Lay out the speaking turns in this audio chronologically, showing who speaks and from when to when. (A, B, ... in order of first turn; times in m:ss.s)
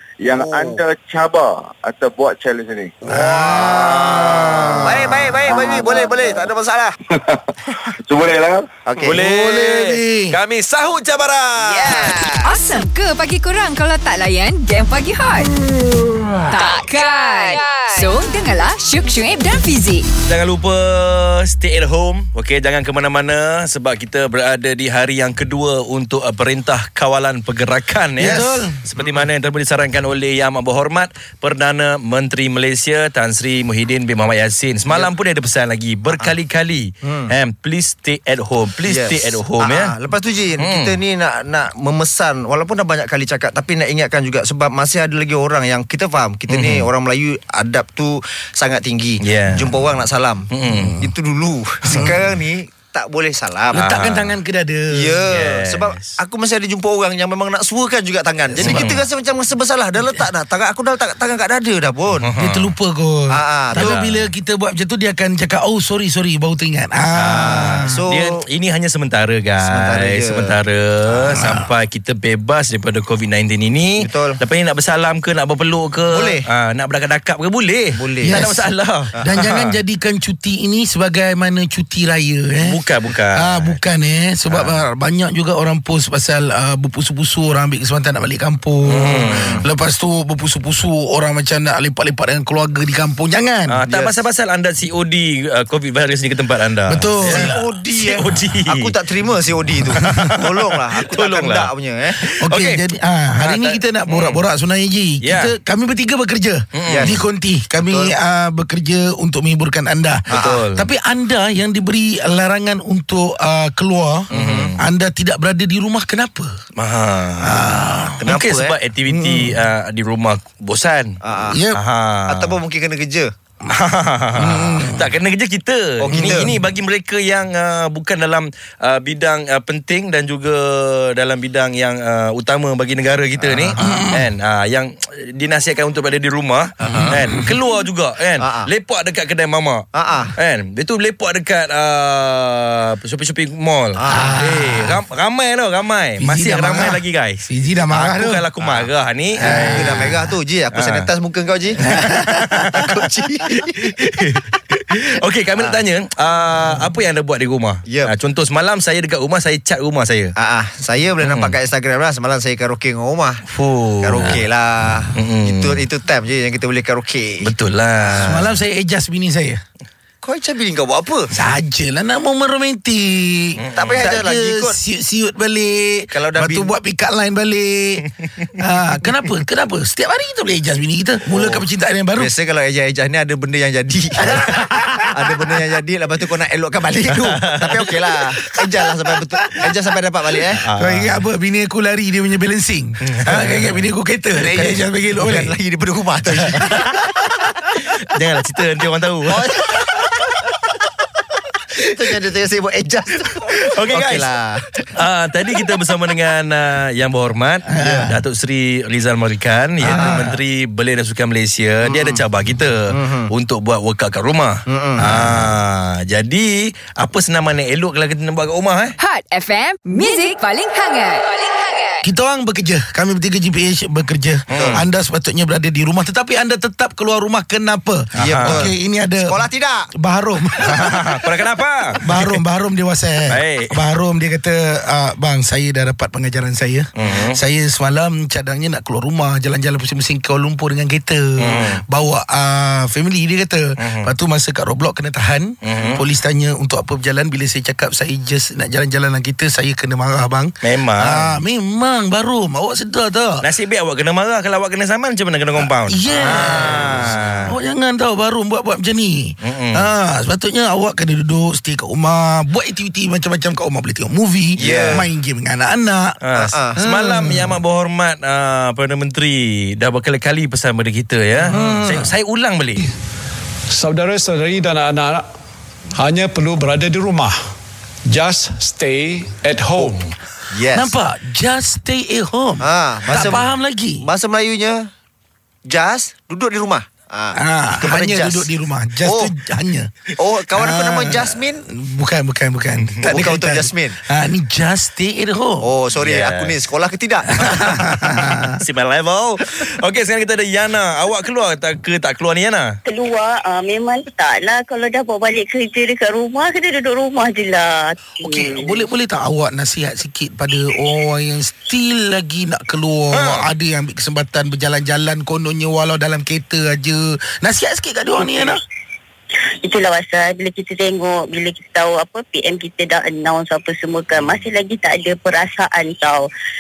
0:00.2-0:03.0 A
0:00.4-0:00.8 B
0:03.0-0:07.0 B
0:03.0-0:05.8 C
0:03.7-0:04.9 D
0:05.8-0:06.1 A
0:07.1-0:08.7 A
0:08.9-0:09.2 B
0:09.0-0:12.3 D
0:09.1-0:10.4 C
0:11.6-0:12.5 B
0:12.1-0:15.5 E
0:16.5-0:20.1 E
0:20.3-0:39.9 D
0:28.2-0:28.8 C
0:37.0-0:37.3 B
0:38.8-0:50.5 B
0:40.6-0:41.0 D
0:46.5-0:46.9 D
0:49.2-0:49.9 D
0:50.5-0:51.0 D
0:50.7-0:51.1 C
0:51.0-0:53.8 B
0:51.9-0:52.3 C
0:53.7-0:55.3 C
0:53.7-0:54.4 D
0:54.9-1:02.3 B
0:55.3-0:56.1 D
0:58.5-0:59.1 D
0:58.6-0:59.0 C
1:02.2-1:02.7 D
1:02.4-1:07.8 C
1:03.3-1:04.0 B
1:03.8-1:04.3 D
1:07.2-1:19.8 D
1:07.4-1:08.3 B
1:09.6-1:10.5 B
1:11.2-1:11.7 C
1:14.0-1:14.4 B
1:16.1-1:16.4 B
1:18.0-1:18.5 B
1:18.2-1:22.8 C
1:22.6-1:23.8 D
1:23.4-1:33.8 C
1:24.5-1:24.8 D
1:28.9-1:29.6 D
1:29.3-1:29.7 B
1:33.7-1:38.9 D
1:33.9-1:34.1 B
1:36.9-1:37.6 C
1:37.2-1:42.2 B
1:40.0-1:41.7 D
1:42.2-1:42.8 D
1:42.2-1:56.5 C
1:43.4-1:44.4 D
1:45.2-1:45.5 D
1:46.8-1:47.2 D
1:46.9-1:47.2 B
1:47.8-1:48.1 B
1:50.3-1:50.6 B
1:50.3-1:50.9 D
1:54.3-1:54.8 D
1:54.3-1:54.8 B
1:56.8-2:01.2 D
1:57.4-1:58.3 C
1:58.3-1:58.8 B
1:59.1-1:59.6 C
2:01.2-2:01.6 B
2:01.5-2:01.8 C
2:01.8-2:02.6 D
2:02.3-2:03.3 B
2:03.7-2:30.1 D
2:04.4-2:05.1 C
2:06.0-2:06.6 B
2:13.4-2:14.0 B
2:13.8-2:14.3 C
2:16.8-2:17.2 B
2:17.1-2:17.6 C
2:18.4-2:18.7 B
2:19.9-2:20.3 B
2:24.0-2:24.4 B
2:24.1-2:25.0 C
2:26.2-2:28.4 C
2:28.6-2:28.9 B
2:29.4-2:30.3 C
2:29.6-2:32.2 B
2:30.8-2:31.1 D
2:32.0-2:32.6 C
2:32.5-2:33.0 D
2:32.7-2:33.7 B
2:33.6-2:40.3 D
2:35.6-2:35.8 B
2:37.9-2:38.1 B
2:40.4-2:43.4 B
2:41.2-2:41.6 D
2:43.5-2:44.4 D
2:44.0-2:47.5 B
2:45.2-2:45.9 D
2:47.4-2:48.4 D
2:48.1-2:48.5 B
2:48.1-2:49.6 C
2:50.2-2:51.3 B
2:51.3-3:02.3 C
2:53.6-2:54.2 D
2:53.8-2:54.8 B
2:56.1-2:56.7 B
3:01.3-3:10.6 B
3:04.3-3:05.0 C
3:07.4-3:07.8 D
3:08.5-3:08.8 C
3:10.5-3:15.6 C
3:10.6-3:11.2 D
3:13.0-3:13.8 D
3:14.4-3:17.0 B
3:17.9-3:19.4 D
3:19.3-3:20.3 B
3:21.8-3:24.9 B
3:23.4-3:24.3 D
3:25.0-3:39.0 D
3:27.7-3:28.2 C
3:29.8-3:30.3 C
3:31.8-3:32.2 B
3:32.9-3:33.3 B
3:34.7-3:35.2 B
3:39.0-3:42.0 E
3:42.0-3:51.3 C
3:44.5-3:44.8 D
3:44.6-3:44.8 B
3:48.2-3:48.7 D
3:48.2-3:49.9 B
3:50.7-3:52.4 D
3:52.0-4:13.4 C
3:53.3-3:53.8 D
3:57.0-3:57.4 D
4:01.4-4:01.8 D
4:03.8-4:04.1 D
4:05.6-4:06.0 D
4:10.6-4:11.4 D
4:13.4-4:17.6 D
4:15.6-4:26.2 C
4:16.2-4:17.2 B
4:19.4-4:19.9 D
4:24.6-4:25.0 D
4:24.6-4:25.1 B
4:26.2-4:32.8 D
4:26.3-4:26.7 B
4:26.8-4:27.6 C
4:31.5-4:32.1 C
4:31.5-4:31.8 B
4:33.7-4:35.3 F
4:35.9-4:37.5 F
4:38.1-4:40.2 F
4:40.5-4:40.9 B
4:40.7-4:44.0 C
4:42.6-4:43.5 B
4:44.0-4:44.8 B
4:45.7-4:48.5 B
4:47.3-4:49.9 C
4:49.0-4:49.3 B
4:50.2-4:51.6 B
4:50.4-4:55.6 C
4:53.1-4:54.0 B
4:55.6-4:57.7 B
4:55.9-4:56.6 D
4:57.4-4:58.5 C
4:58.6-5:02.7 D
5:02.9-5:08.8 G
5:08.2-5:18.6 C
5:13.1-5:13.4 D
5:19.6-5:26.3 G